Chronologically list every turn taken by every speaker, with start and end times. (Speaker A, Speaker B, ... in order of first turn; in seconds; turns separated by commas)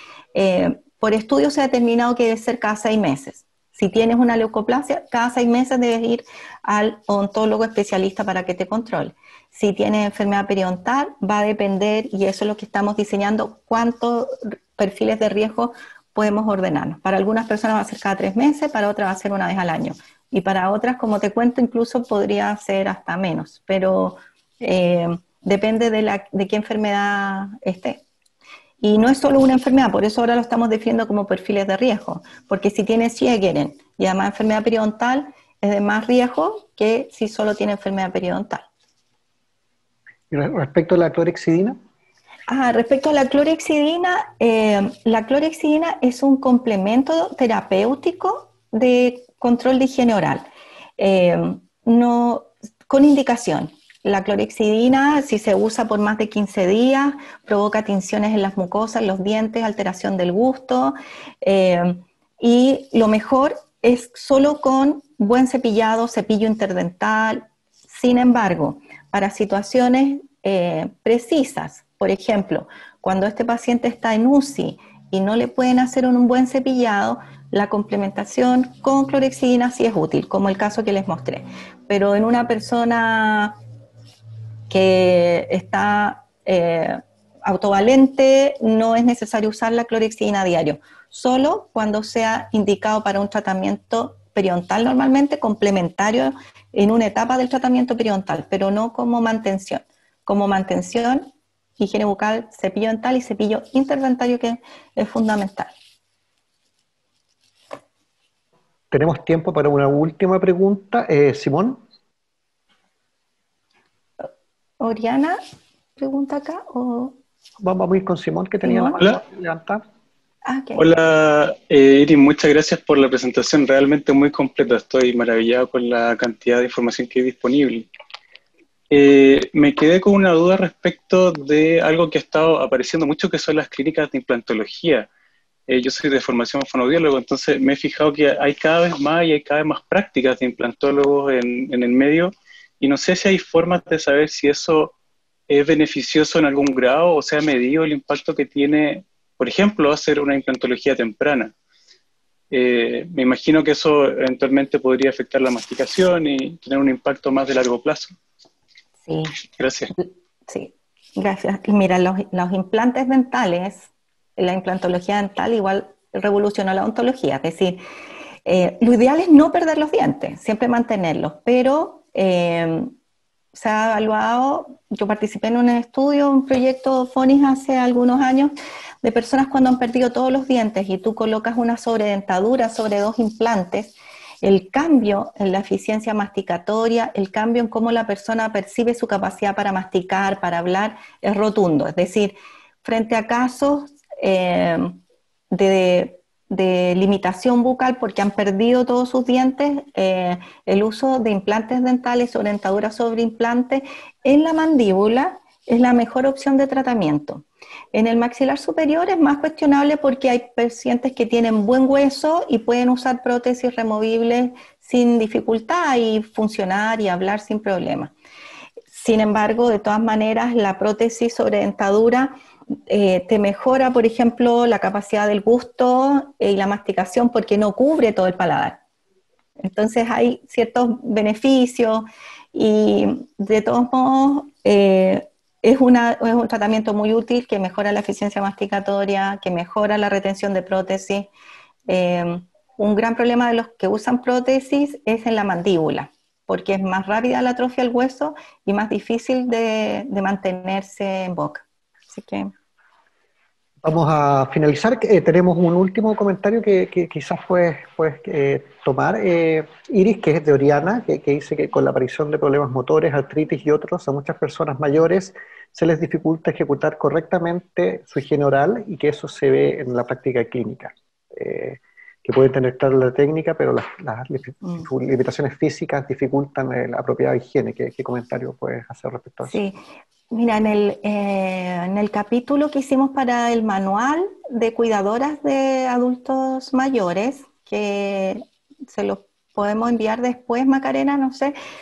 Speaker A: 0.3-28.0, Speaker A: 28.8-38.6, Speaker B: 40.3-41.8, Speaker A: 42.5-50.5, Speaker A: 51.0-83.6, Speaker A: 84.7-105.7, Speaker B: 108.9-111.8, Speaker A: 114.8-115.4, Speaker A: 116.0-117.2, Speaker B: 117.6-119.8, Speaker A: 118.6-119.0, Speaker A: 120.5-120.9, Speaker C: 120.8-127.9, Speaker C: 128.9-135.1, Speaker C: 135.7-144.9, Speaker C: 145.5-151.5, Speaker C: 152.5-158.1, Speaker A: 159.1-159.4, Speaker C: 159.4-159.9, Speaker A: 159.9-167.8, Speaker A: 168.4-172.9, Speaker A: 173.5-195.0, Speaker A: 195.5-218.1, Speaker A: 218.9-222.3, Speaker A: 222.9-228.8, Speaker A: 229.6-241.3, Speaker A: 241.9-252.5, Speaker B: 253.8-279.6, Speaker A: 279.4-279.8, Speaker A: 280.3-291.6